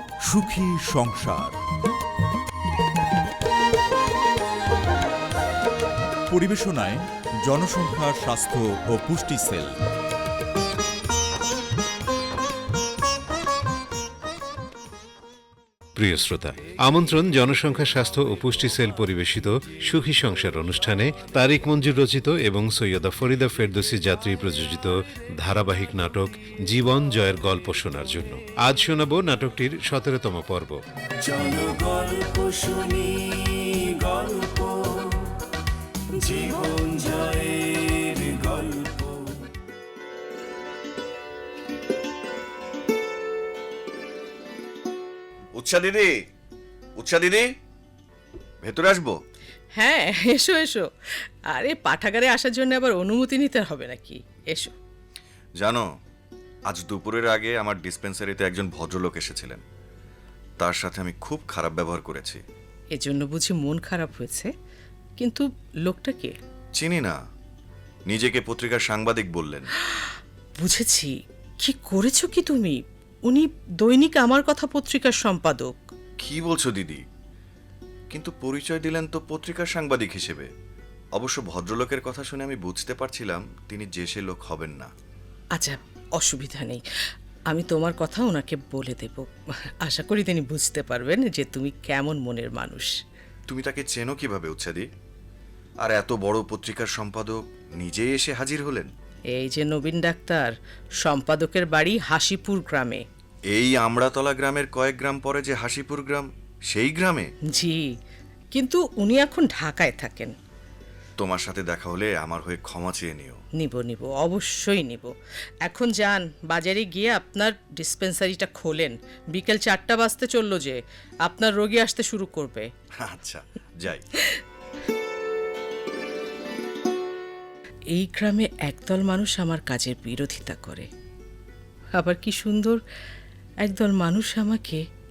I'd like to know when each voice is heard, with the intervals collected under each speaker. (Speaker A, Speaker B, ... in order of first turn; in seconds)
Speaker A: 0.2-1.5, 6.3-9.7
Speaker B: 15.9-30.8
Speaker C: 31.2-35.2, 36.2-39.2
Speaker D: 45.5-46.1, 47.0-47.5, 48.6-49.2, 55.6-55.8, 56.7-59.6, 60.6-62.4, 66.8-67.2, 68.1-69.7, 76.2-77.0, 78.1-80.5, 81.1-84.9, 93.5-94.9, 95.8-98.9, 103.5-107.3, 111.2-113.4, 123.0-124.1
Speaker E: 49.7-54.7, 62.9-64.5, 65.2-66.4, 70.0-75.8, 85.5-86.8, 87.5-89.3, 89.8-92.9, 99.3-103.0, 107.5-107.9, 108.5-110.3, 113.5-122.7, 127.9-130.9, 131.9-132.8, 133.6-134.8